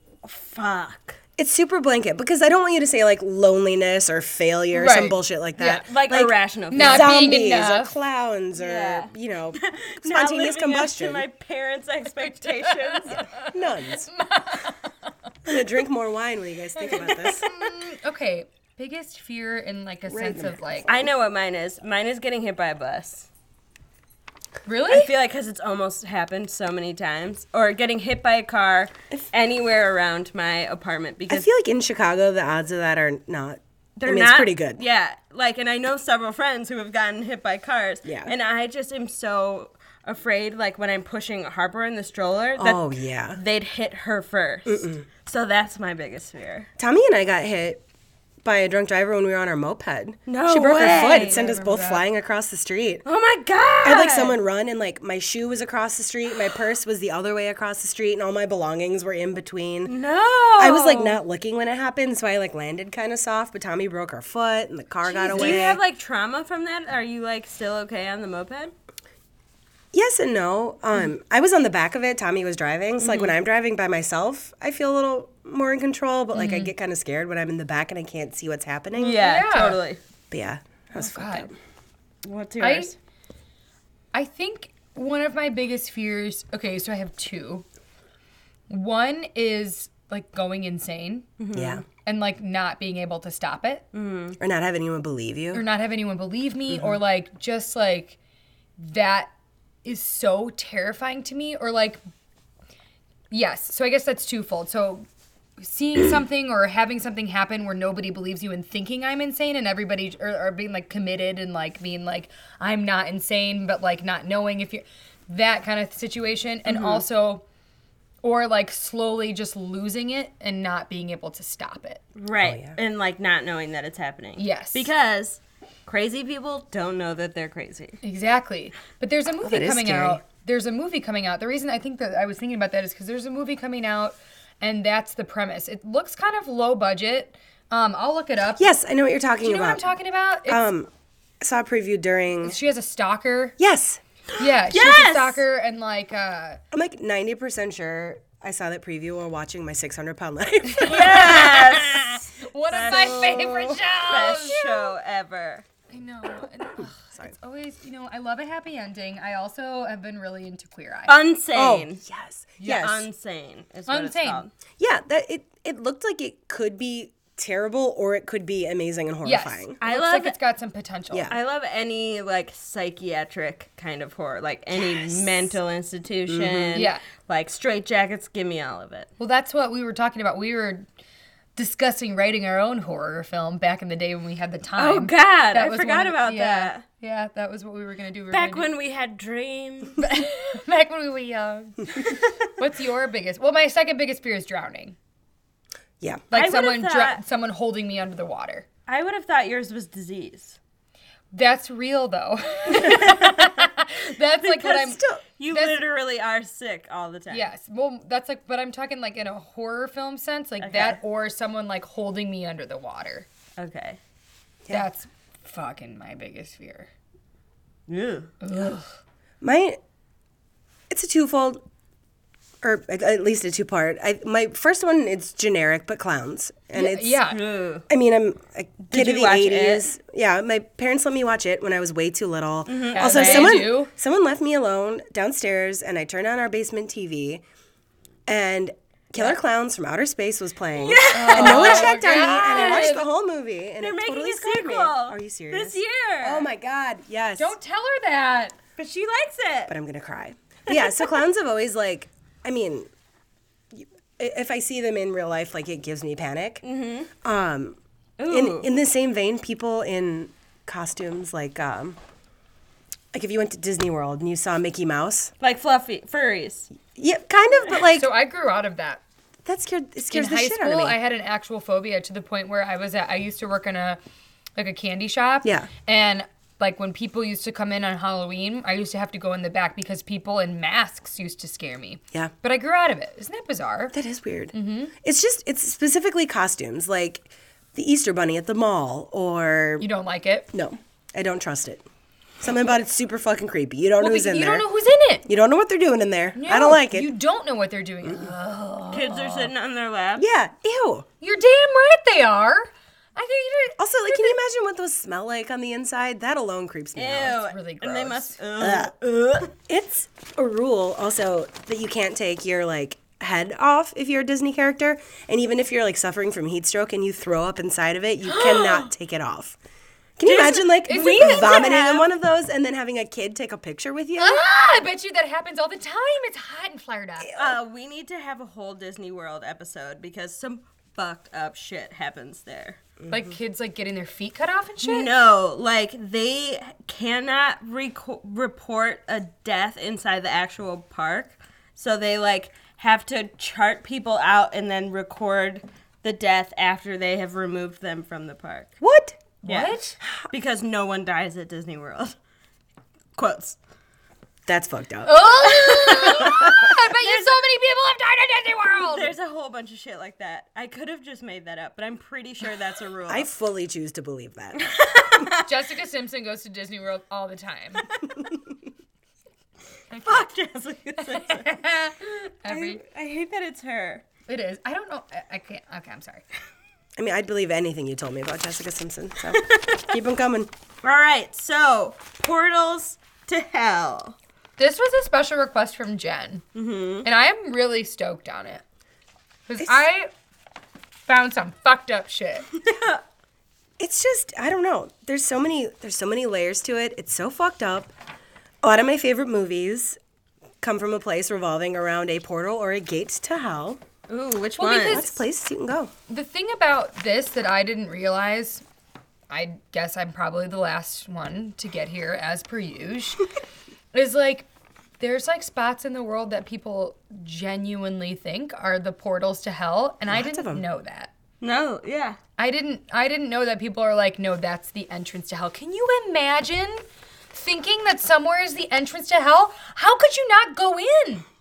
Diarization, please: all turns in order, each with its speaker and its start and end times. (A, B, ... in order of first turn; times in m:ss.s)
0:00.2-0:01.2 A
0:01.4-0:11.2 B
0:04.7-0:05.2 C
0:05.6-0:07.1 A
0:06.7-0:07.9 C
0:08.6-0:13.2 A
0:12.2-0:13.5 C
0:13.3-0:14.1 B
0:14.1-0:15.1 C
0:15.4-0:17.5 B
0:16.9-0:20.9 C
0:20.1-0:21.0 B
0:20.9-0:23.3 A
0:24.6-0:25.1 C
0:24.9-0:31.5 A
0:31.3-0:34.8 B
0:34.0-0:46.7 A
0:38.0-0:38.3 B
0:42.6-0:43.4 B
0:44.6-0:45.0 B
0:46.8-0:47.8 B
0:48.4-0:53.0 B
0:50.3-0:51.4 A
0:50.7-0:52.0 C
0:53.0-0:54.4 A
0:53.8-0:59.9 B
0:59.9-1:01.2 A
1:00.6-1:05.8 B
1:05.1-1:08.7 A
1:09.9-1:19.2 B
1:13.0-1:13.3 A
1:16.3-1:16.7 C
1:18.9-1:20.0 A
1:19.2-1:19.8 C
1:20.3-1:21.5 B
1:20.9-1:21.5 C
1:22.2-1:22.9 A
1:22.6-1:22.9 C
1:24.1-1:27.6 C
1:28.7-1:31.3 C
1:31.4-1:31.8 A
1:31.5-1:31.8 B
1:32.0-1:33.8 C
1:33.9-1:34.4 A
1:34.4-1:35.6 B
1:35.5-1:38.2 C
1:38.8-1:39.3 C
1:39.8-1:42.0 C
1:43.3-1:45.0 C
1:45.6-1:57.4 C
1:56.7-1:57.0 A
1:58.2-2:02.0 C
2:02.2-2:08.0 A
2:02.4-2:02.8 B
2:04.4-2:04.9 C
2:08.0-2:18.7 C
2:09.4-2:10.2 B
2:18.6-2:19.8 B
2:19.4-2:20.6 C
2:20.5-2:20.9 B
2:21.4-2:22.6 B
2:22.4-2:23.6 C
2:23.6-2:24.0 B
2:24.3-2:25.4 A
2:24.4-2:26.6 C
2:26.7-2:31.6 B
2:30.8-2:34.9 C
2:30.8-2:35.7 A
2:32.9-2:33.8 B
2:35.9-2:41.1 C
2:37.0-2:37.3 B
2:41.1-2:42.0 A
2:41.5-2:43.1 B
2:42.6-2:42.9 C
2:42.6-2:44.5 A
2:43.9-2:44.4 C
2:44.8-2:49.8 B
2:49.2-2:51.3 C
2:49.8-2:50.4 A
2:51.3-2:59.1 A
2:56.3-2:56.8 B
2:56.7-2:57.0 C
2:59.2-3:00.8 C
3:01.6-3:08.7 C
3:04.8-3:06.8 A
3:08.3-3:10.0 A
3:10.0-3:15.0 C
3:16.3-3:18.6 C
3:16.3-3:17.2 A
3:18.9-3:20.6 A
3:21.3-3:25.8 C
3:22.8-3:23.5 A
3:24.4-3:27.4 A
3:24.9-3:25.2 B
3:27.3-3:33.3 C
3:30.6-3:31.0 A
3:33.6-3:34.0 A
3:34.7-3:36.9 C
3:37.9-3:38.3 A
3:38.4-3:38.9 C
3:39.4-3:39.8 B
3:40.9-3:41.6 B
3:42.6-3:47.2 B
3:46.7-3:47.4 C
3:47.3-3:47.8 A
3:47.9-3:57.4 B
3:48.9-3:49.8 A
3:52.7-3:53.6 A
3:53.0-3:53.9 C
3:58.3-4:07.6 B
4:00.7-4:03.0 A
4:01.1-4:03.0 C
4:03.8-4:06.5 A
4:07.4-4:08.6 C
4:08.8-4:09.7 A
4:09.7-4:12.9 B
4:13.7-4:16.6 B
4:16.6-4:17.1 A
4:17.2-4:22.0 B
4:18.2-4:18.7 A
4:23.1-4:25.3 B
4:25.4-4:26.7 A
4:26.9-4:28.1 B
4:28.0-4:29.0 C
4:29.4-4:31.0 B
4:30.1-4:34.0 C
4:34.6-4:43.9 C
4:35.4-4:35.7 B
4:43.9-4:49.8 B
4:44.5-4:44.9 C
4:49.8-4:50.5 C
4:50.5-4:51.8 B
4:52.4-4:54.7 B
4:54.0-4:55.2 C
4:55.2-4:57.1 B
4:56.4-4:59.5 C
4:58.0-4:58.3 B
4:58.9-5:00.2 A
5:00.2-5:01.1 B
5:01.2-5:04.4 C
5:03.8-5:07.4 B
5:06.9-5:09.5 A
5:07.3-5:08.4 C
5:08.6-5:08.9 B
5:09.7-5:19.6 B
5:18.3-5:18.9 A
5:20.2-5:24.4 B
5:20.2-5:22.1 A
5:20.9-5:21.5 C
5:24.2-5:27.3 C
5:27.2-5:27.6 B
5:27.3-5:32.8 A
5:33.0-5:33.3 B
5:33.1-5:35.1 C
5:34.8-5:48.7 A
5:48.8-5:49.3 B
5:49.4-5:50.0 C
5:49.4-5:49.8 A
5:50.3-5:52.1 A
5:53.2-5:53.6 A
5:54.5-5:55.5 B
5:55.0-5:59.1 C
5:55.6-5:57.4 A
5:56.2-5:56.6 B
5:58.9-6:03.3 A
6:03.1-6:04.6 B
6:04.6-6:05.5 A
6:05.4-6:07.8 C
6:09.9-6:10.2 C
6:10.0-6:11.5 A
6:11.0-6:12.8 C
6:12.5-6:14.0 A
6:14.3-6:16.2 C
6:17.0-6:20.5 B
6:19.3-6:19.9 A
6:20.8-6:24.2 A
6:24.6-6:26.4 C
6:26.5-6:27.1 A
6:27.0-6:28.6 C
6:29.5-6:30.1 C
6:31.1-6:32.5 C
6:32.6-6:33.0 A
6:33.8-6:37.9 B
6:38.6-6:40.0 B
6:40.6-6:43.8 B
6:44.1-6:45.0 A
6:44.6-6:45.2 C
6:44.8-6:45.9 B
6:46.1-6:48.6 C
6:49.3-6:53.2 C
6:53.9-6:54.5 C
6:55.0-7:01.1 C
7:00.1-7:00.6 B
7:01.4-7:02.2 A
7:02.4-7:11.2 C